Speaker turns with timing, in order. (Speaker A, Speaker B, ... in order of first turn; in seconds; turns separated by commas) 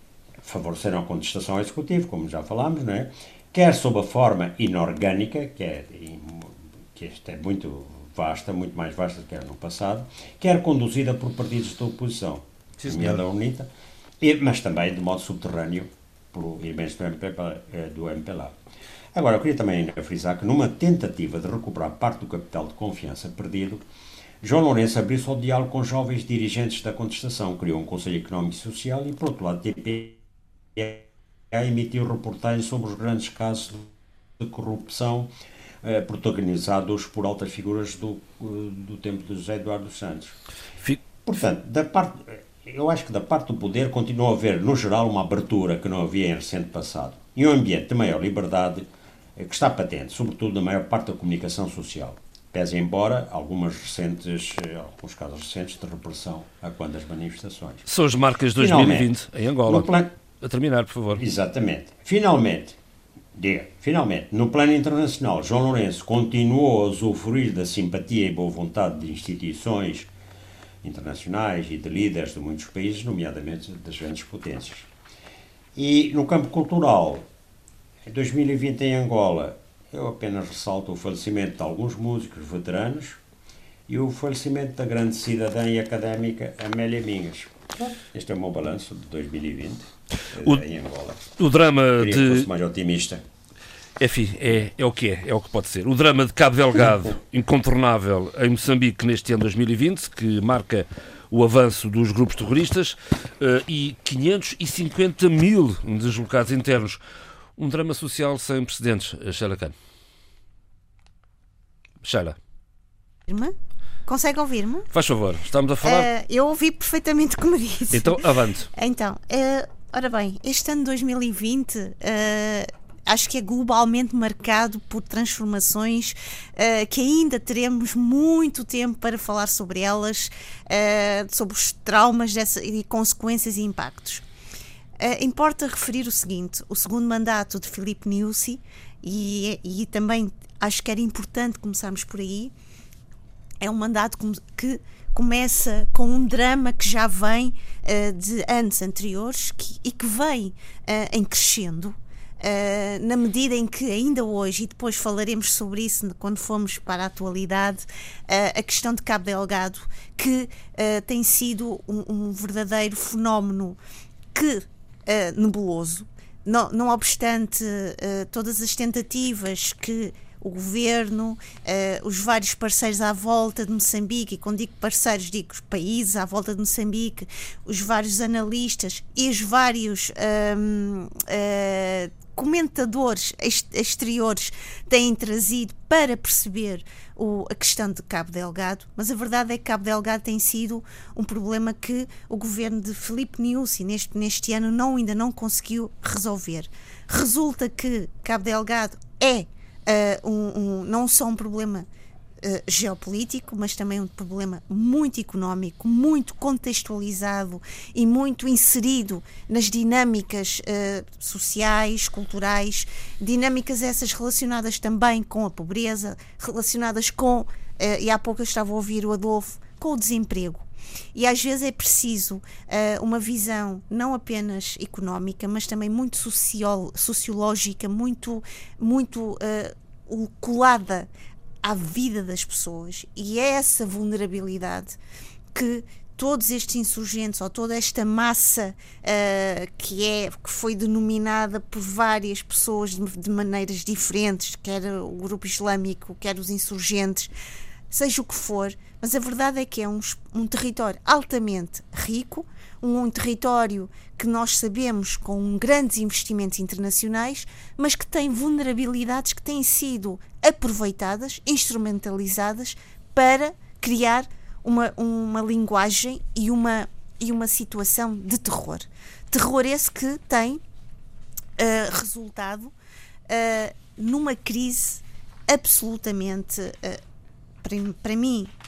Speaker A: 0.4-13.7, Speaker B: 12.8-13.2, Speaker A: 14.2-18.5, Speaker A: 19.1-23.8, Speaker A: 24.4-30.2, Speaker A: 30.7-35.3, Speaker A: 35.8-40.4, Speaker A: 41.2-57.9, Speaker B: 57.9-61.2, Speaker A: 58.5-59.1, Speaker A: 59.7-60.1, Speaker A: 61.1-62.8, Speaker A: 63.3-70.1, Speaker A: 70.8-74.9, Speaker A: 75.8-77.2, Speaker A: 78.0-83.2, Speaker A: 83.9-91.3, Speaker B: 90.4-90.6, Speaker B: 91.4-92.5, Speaker A: 91.9-93.2, Speaker B: 94.0-107.0, Speaker B: 107.6-109.7, Speaker B: 112.0-112.4, Speaker C: 113.3-113.5, Speaker C: 114.0-114.9, Speaker B: 114.9-116.1, Speaker C: 115.8-118.2, Speaker B: 117.9-118.7, Speaker C: 118.7-134.2, Speaker C: 135.0-142.5, Speaker C: 143.6-163.8, Speaker C: 164.3-201.8, Speaker C: 202.4-231.1, Speaker C: 231.6-235.0, Speaker C: 235.5-247.3, Speaker C: 247.9-270.6, Speaker C: 271.6-272.7, Speaker C: 273.3-277.0, Speaker C: 277.6-278.5